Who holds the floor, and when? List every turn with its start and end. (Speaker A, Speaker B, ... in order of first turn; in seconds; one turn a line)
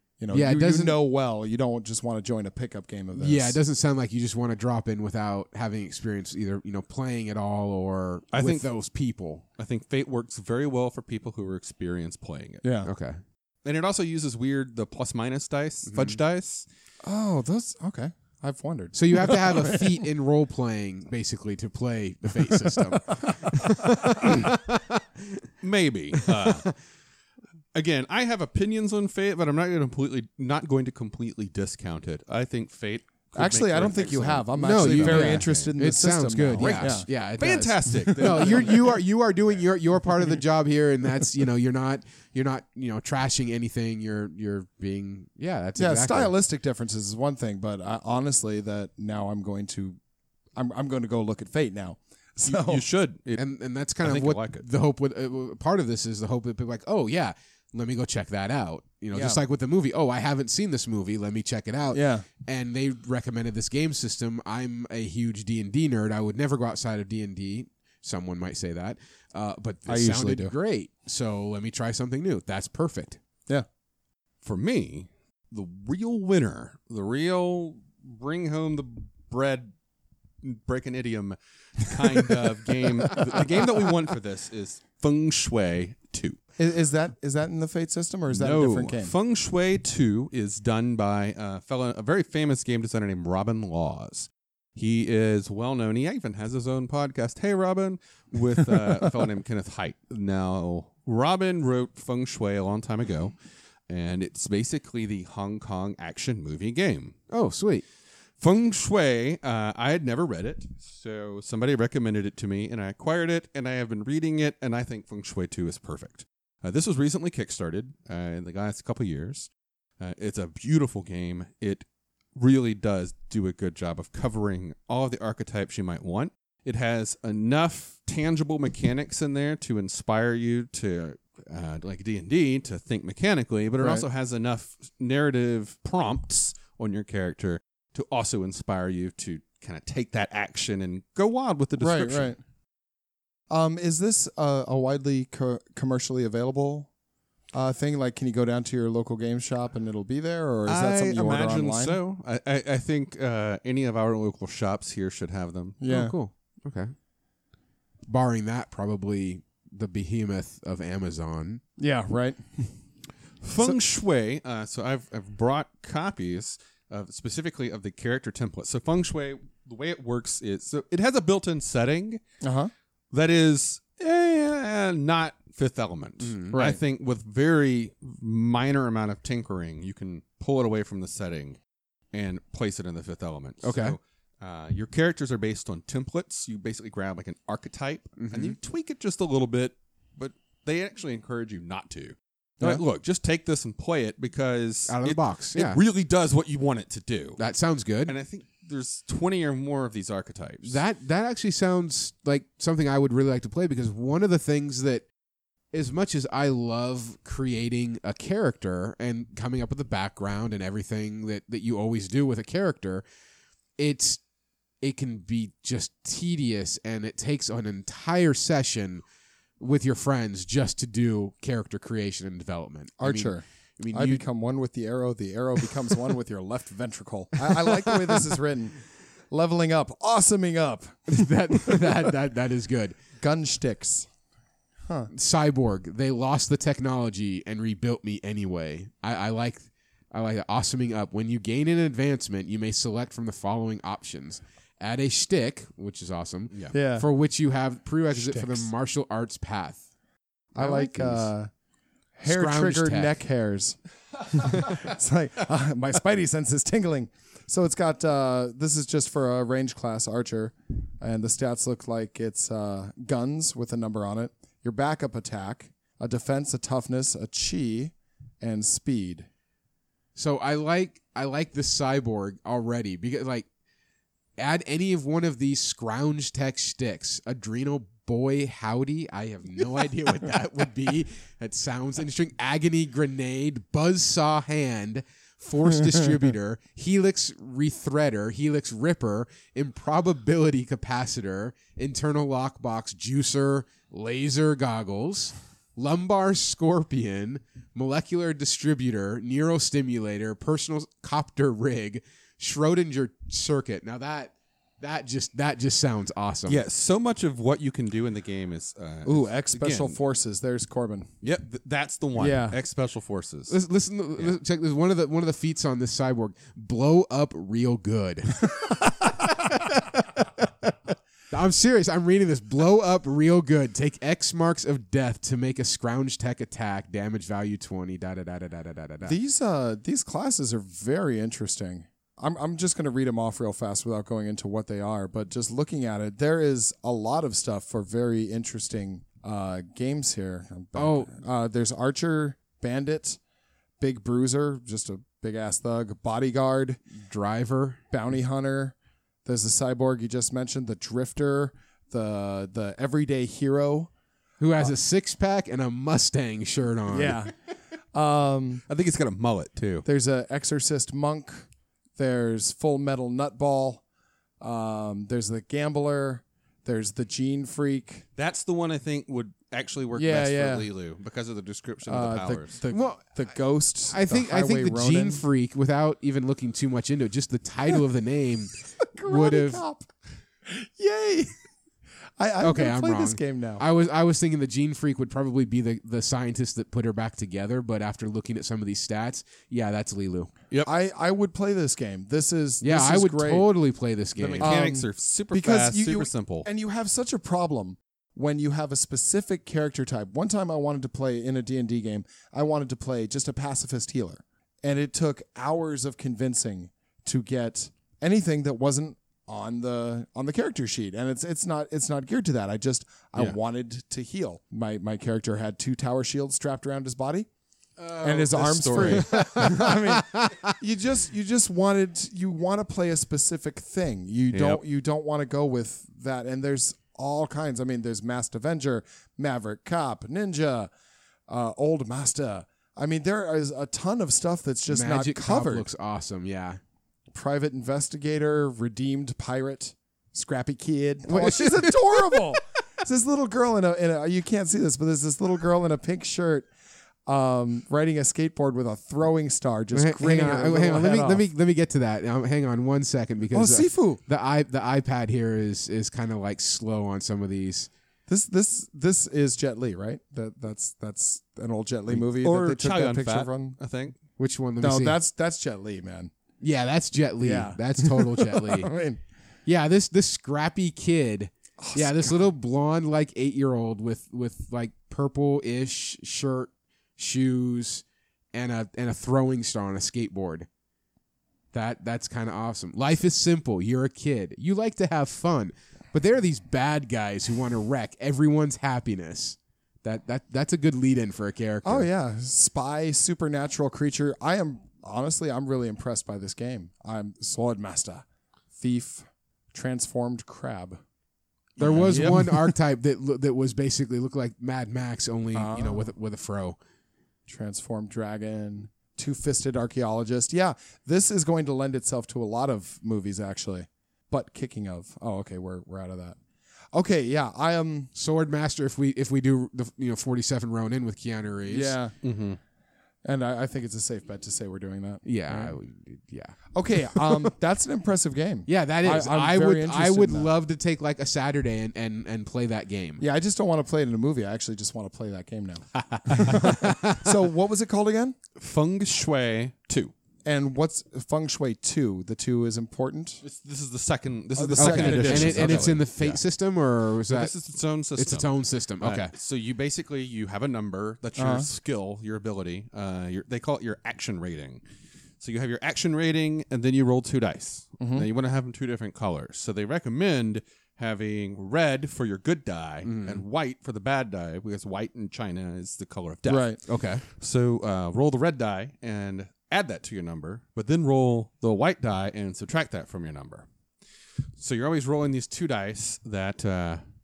Speaker A: 0.2-3.6
Speaker B: 0.3-1.0
Speaker B: 3.1-9.4
Speaker C: 8.3-8.7
Speaker C: 9.6-12.7
Speaker A: 12.6-12.9
Speaker B: 12.8-13.2
Speaker C: 13.6-16.6
Speaker B: 15.9-16.2
Speaker A: 17.0-20.1
Speaker B: 18.9-25.4
Speaker A: 22.5-24.4
Speaker C: 25.6-26.7
Speaker C: 27.7-35.7
Speaker A: 33.3-37.1
Speaker B: 34.6-46.3
Speaker C: 36.6-39.0
Speaker A: 38.2-38.8
Speaker A: 45.8-50.0
Speaker A: 50.5-52.8
Speaker C: 52.5-53.4
Speaker B: 53.4-73.2
Speaker C: 54.0-54.6
Speaker A: 59.1-59.4
Speaker A: 61.9-62.2
Speaker A: 69.9-70.5
Speaker C: 74.4-79.7
Speaker C: 80.4-86.4
Speaker A: 86.6-89.1
Speaker C: 88.3-103.3
Speaker C: 103.9-107.2
Speaker B: 107.3-107.8
Speaker C: 108.4-119.5
Speaker C: 120.0-142.3
Speaker A: 133.8-134.1
Speaker A: 141.8-142.4
Speaker A: 143.5-146.9
Speaker A: 147.5-152.0
Speaker C: 150.7-155.8
Speaker A: 155.8-156.2
Speaker B: 155.9-156.9
Speaker B: 158.1-161.6
Speaker A: 161.8-162.7
Speaker C: 163.4-172.2
Speaker A: 172.4-172.7
Speaker C: 173.1-181.6
Speaker B: 176.2-176.6
Speaker A: 176.5-176.8
Speaker C: 182.1-197.4
Speaker B: 183.6-184.0
Speaker B: 188.2-188.6
Speaker B: 194.9-195.8
Speaker B: 197.4-198.1
Speaker C: 198.1-200.8
Speaker B: 200.6-205.1
Speaker B: 205.7-213.0
Speaker B: 213.8-214.2
Speaker B: 214.8-219.0
Speaker B: 219.6-224.2
Speaker A: 223.0-228.8
Speaker A: 229.3-232.1
Speaker B: 231.1-233.0
Speaker A: 233.2-234.1
Speaker B: 235.1-249.8
Speaker A: 246.7-247.1
Speaker A: 248.1-248.7
Speaker A: 250.5-251.5
Speaker B: 250.6-251.3
Speaker A: 252.1-269.3
Speaker B: 252.2-253.2
Speaker B: 270.1-273.5
Speaker B: 274.4-306.6
Speaker C: 306.5-310.0
Speaker A: 309.1-311.1
Speaker C: 311.2-313.5
Speaker A: 312.1-312.6
Speaker B: 313.5-320.4
Speaker B: 321.3-329.2
Speaker A: 329.0-343.2
Speaker B: 340.7-341.2
Speaker A: 343.8-346.8
Speaker B: 346.9-347.8
Speaker A: 347.9-353.9
Speaker B: 354.4-357.2
Speaker A: 356.9-357.3
Speaker A: 357.9-358.6
Speaker C: 358.7-359.9
Speaker A: 359.9-363.8
Speaker A: 364.4-368.1
Speaker C: 368.2-372.6
Speaker A: 369.9-370.7
Speaker A: 371.9-375.2
Speaker B: 372.7-373.0
Speaker B: 373.9-379.6
Speaker A: 378.8-379.9
Speaker A: 380.4-381.4
Speaker A: 382.2-383.6
Speaker B: 382.4-390.3
Speaker A: 390.6-393.5
Speaker B: 392.6-394.6
Speaker C: 394.1-396.5
Speaker A: 394.4-417.3
Speaker C: 417.9-419.4
Speaker A: 418.0-430.7
Speaker B: 418.5-420.5
Speaker C: 424.3-424.6
Speaker A: 431.3-435.7
Speaker B: 434.7-436.6
Speaker A: 437.1-446.5
Speaker B: 441.1-442.3
Speaker A: 447.1-451.2
Speaker B: 449.7-457.7
Speaker A: 453.3-454.0
Speaker A: 458.1-463.6
Speaker C: 461.9-464.0
Speaker B: 464.2-465.0
Speaker A: 464.6-466.1
Speaker B: 466.4-468.7
Speaker A: 467.2-469.0
Speaker B: 469.4-480.5
Speaker A: 471.6-472.3
Speaker B: 481.5-491.9
Speaker A: 491.6-500.8
Speaker B: 501.6-506.6
Speaker A: 501.6-502.4
Speaker C: 501.6-502.4
Speaker A: 505.3-505.9
Speaker A: 507.3-516.2
Speaker A: 516.7-517.9
Speaker B: 517.9-521.8
Speaker A: 521.5-521.9
Speaker C: 522.0-522.4
Speaker A: 523.0-525.5
Speaker B: 525.0-526.4
Speaker A: 526.5-530.3
Speaker B: 526.9-527.3
Speaker B: 528.5-533.0
Speaker A: 533.0-538.1
Speaker B: 535.9-537.1
Speaker C: 538.4-539.9
Speaker A: 540.2-543.2
Speaker C: 543.2-546.2
Speaker A: 544.3-545.8
Speaker B: 544.6-547.3
Speaker C: 547.1-554.6
Speaker B: 548.0-549.1
Speaker A: 551.2-551.5
Speaker C: 555.2-573.5
Speaker A: 557.8-558.1
Speaker B: 562.8-563.2
Speaker A: 566.2-566.6
Speaker B: 566.7-567.0
Speaker C: 574.4-576.8